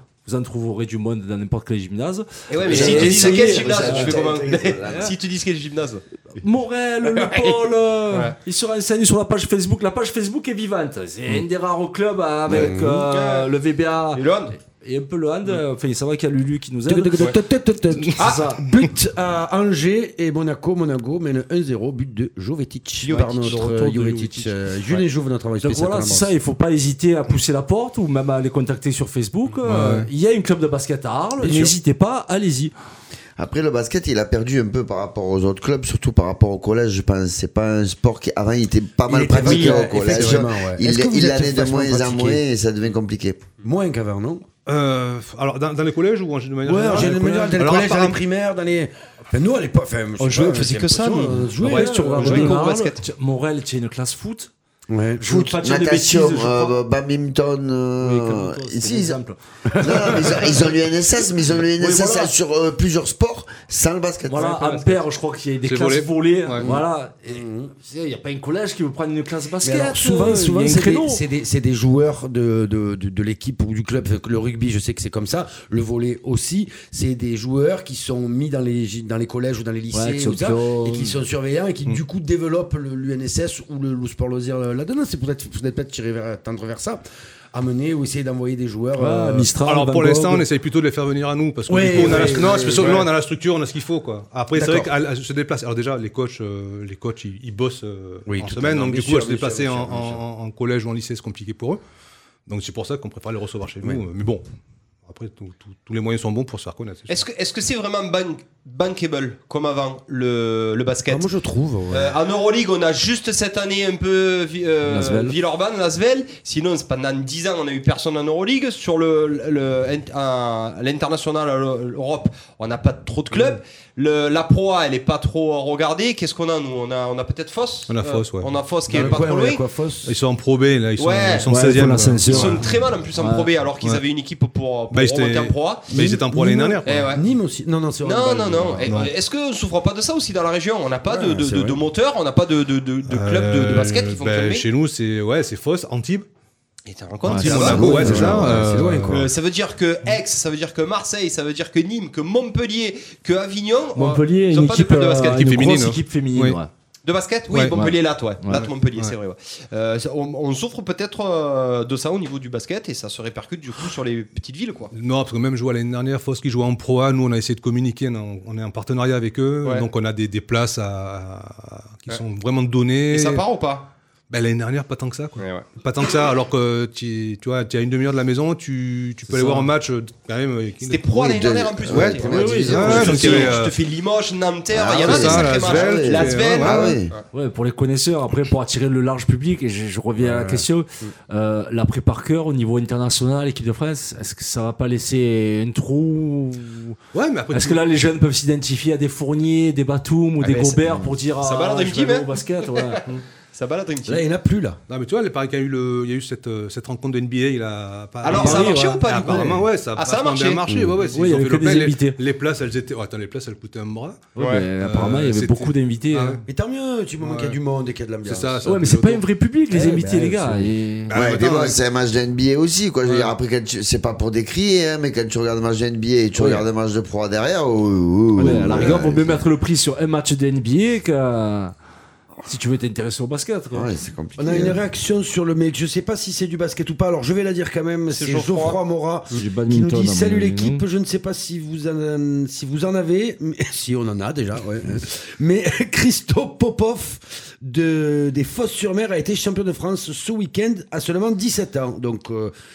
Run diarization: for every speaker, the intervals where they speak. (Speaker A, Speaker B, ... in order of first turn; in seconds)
Speaker A: 0.3-4.2, 6.4-17.2, 18.2-18.6, 23.4-25.0, 25.6-32.7, 47.0-47.5, 51.6-54.5, 55.2-56.8, 58.0-60.5, 61.8-62.3, 64.3-71.2, 79.9-81.2, 89.0-90.5, 114.9-115.4, 131.5-133.5, 147.2-148.6, 153.9-156.7, 157.7-158.7, 179.3-179.7, 182.2-183.4, 187.3-197.0, 197.5-203.0, 208.3-209.4, 211.0-212.2, 214.4-216.4, 218.7-221.2, 228.4-231.7, 232.5-233.9, 239.3-240.8
Speaker B: 2.5-6.0, 7.2-7.6, 8.1-8.4, 12.5-13.5, 14.1-14.6, 18.2-18.4, 23.0-23.6, 50.2-51.5, 52.1-53.0, 107.1-111.3, 111.9-129.6, 131.0-131.5, 132.3-135.9, 136.8-137.2, 138.0-144.7, 146.9-148.6, 149.1-155.6, 157.1-164.9, 173.1-173.9, 175.4-175.7, 180.9-187.2, 200.4-200.8, 201.4-204.2, 208.2-210.7, 214.4-214.7, 238.1-238.8
Speaker C: 2.6-5.1, 33.4-43.4, 55.3-59.2, 59.8-64.9, 181.1-183.5, 184.7-187.1, 221.1-229.4, 233.7-234.8
Speaker D: 12.5-13.1, 16.9-26.3, 29.7-30.0, 31.4-31.8, 39.1-42.4, 43.6-44.5, 46.6-52.6, 54.9-55.5, 59.7-60.6, 66.6-67.7, 69.6-87.0, 87.5-89.5, 91.7-93.1, 94.6-94.9, 98.3-100.2, 111.1-112.2, 128.9-130.2, 135.9-138.9, 141.1-141.8, 147.5-149.3, 190.2-190.7, 204.1-204.8, 216.5-218.9, 219.7-220.7, 226.4-226.6, 228.5-228.8, 234.4-252.5
Speaker E: 29.7-30.1, 44.7-48.2, 51.6-51.9, 65.7-66.7, 89.6-101.8, 102.5-104.4, 105.1-107.2, 127.9-129.2, 130.1-132.8, 134.9-137.2, 138.8-139.1, 143.1-146.3, 147.2-149.3, 155.4-156.6, 157.5-157.9, 164.9-173.4, 174.3-181.0, 181.9-183.8, 185.0-186.9, 197.1-197.8, 204.9-216.4, 217.2-217.6, 218.2-219.2, 221.1-221.8, 223.1-223.3